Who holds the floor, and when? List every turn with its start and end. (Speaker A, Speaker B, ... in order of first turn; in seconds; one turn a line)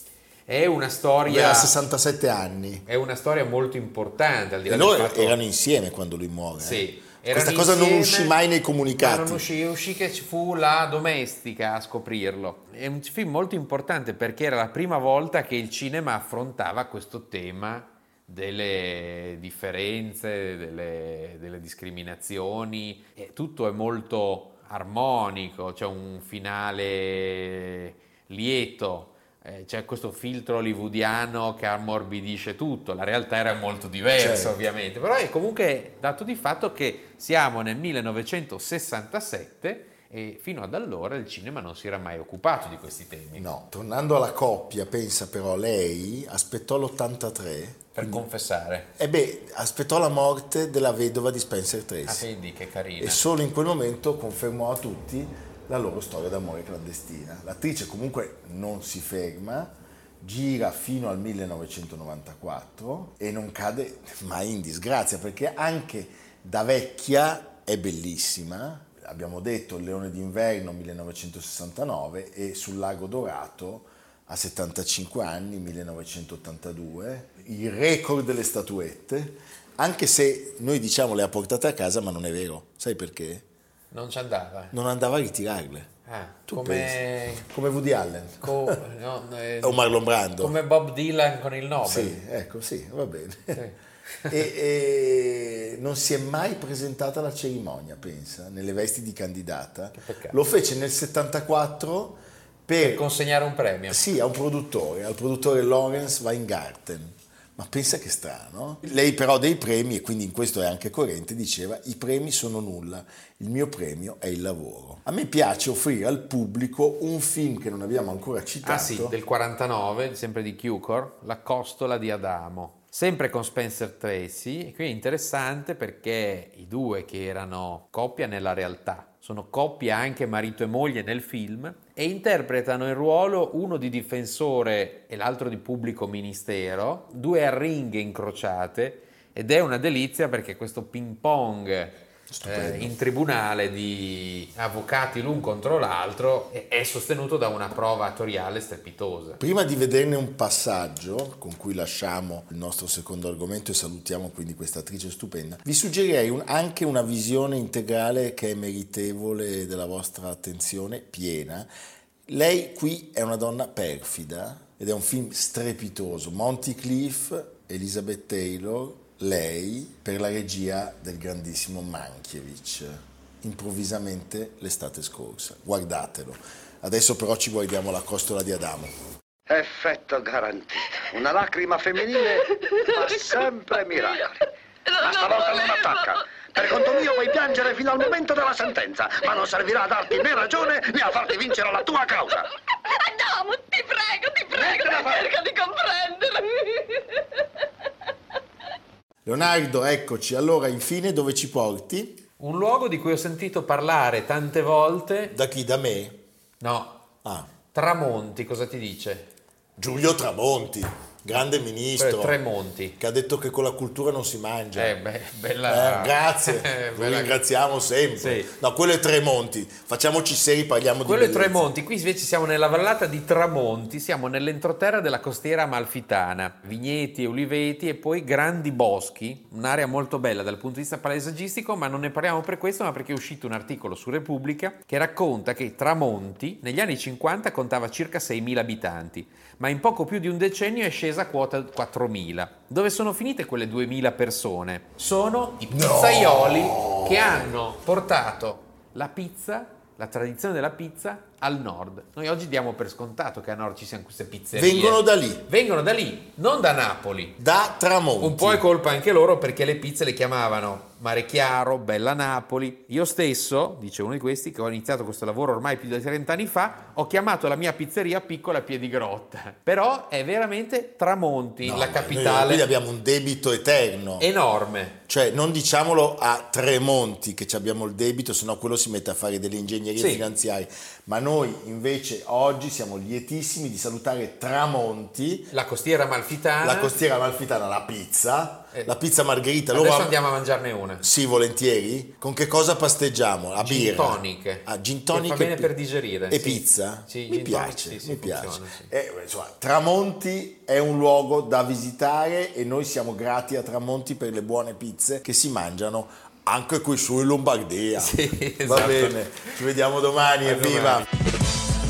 Speaker A: 0.5-1.8
Speaker B: 1.3-2.9
Speaker A: 2.9-5.4
Speaker B: 4.7-9.4
Speaker A: 6.6-8.3
Speaker A: 9.0-43.5
Speaker B: 34.1-34.5
Speaker B: 43.4-48.2
Speaker A: 48.0-48.9
Speaker B: 49.0-52.2
Speaker A: 52.1-53.2
Speaker B: 53.0-83.5
Speaker A: 83.9-84.7
Speaker B: 84.7-85.9
Speaker A: 86.1-87.5
Speaker B: 86.5-88.8
Speaker A: 88.4-92.2
Speaker B: 89.6-90.5
Speaker B: 91.8-93.6
Speaker A: 93.5-94.4
Speaker B: 94.3-103.0
Speaker A: 100.0-100.4
Speaker A: 102.8-104.0
Speaker B: 103.9-119.1
Speaker A: 118.6-149.4
Speaker B: 142.3-142.9
Speaker B: 149.4-161.7
Speaker B: 162.3-178.9
Speaker C: 179.5-184.4
Speaker D: 183.0-184.1
Speaker D: 184.9-187.2
Speaker C: 185.0-192.5
Speaker D: 192.9-197.0
Speaker C: 194.5-195.3
Speaker B: 199.3-202.2
Speaker A: 202.4-205.3
Speaker B: 205.3-206.2
Speaker A: 206.6-207.1
Speaker B: 207.2-207.5
Speaker A: 207.7-209.3
Speaker B: 209.8-212.4
Speaker A: 212.0-213.0
Speaker B: 213.0-215.0
Speaker A: 214.8-217.4
Speaker B: 215.7-221.7
Speaker A: 218.2-218.5
Speaker A: 221.0-257.4
Speaker B: 245.7-247.5
Speaker B: 254.5-255.5
Speaker B: 257.4-258.6
Speaker A: 258.2-272.7
Speaker B: 271.6-274.3
Speaker A: 274.2-275.0
Speaker B: 275.1-285.5
Speaker A: 280.0-280.2
Speaker A: 285.5-286.9
Speaker B: 286.6-290.2
Speaker A: 289.7-291.1
Speaker B: 291.0-295.7
Speaker A: 293.6-298.9
Speaker B: 296.3-311.1
Speaker A: 308.0-309.6
Speaker A: 310.4-311.1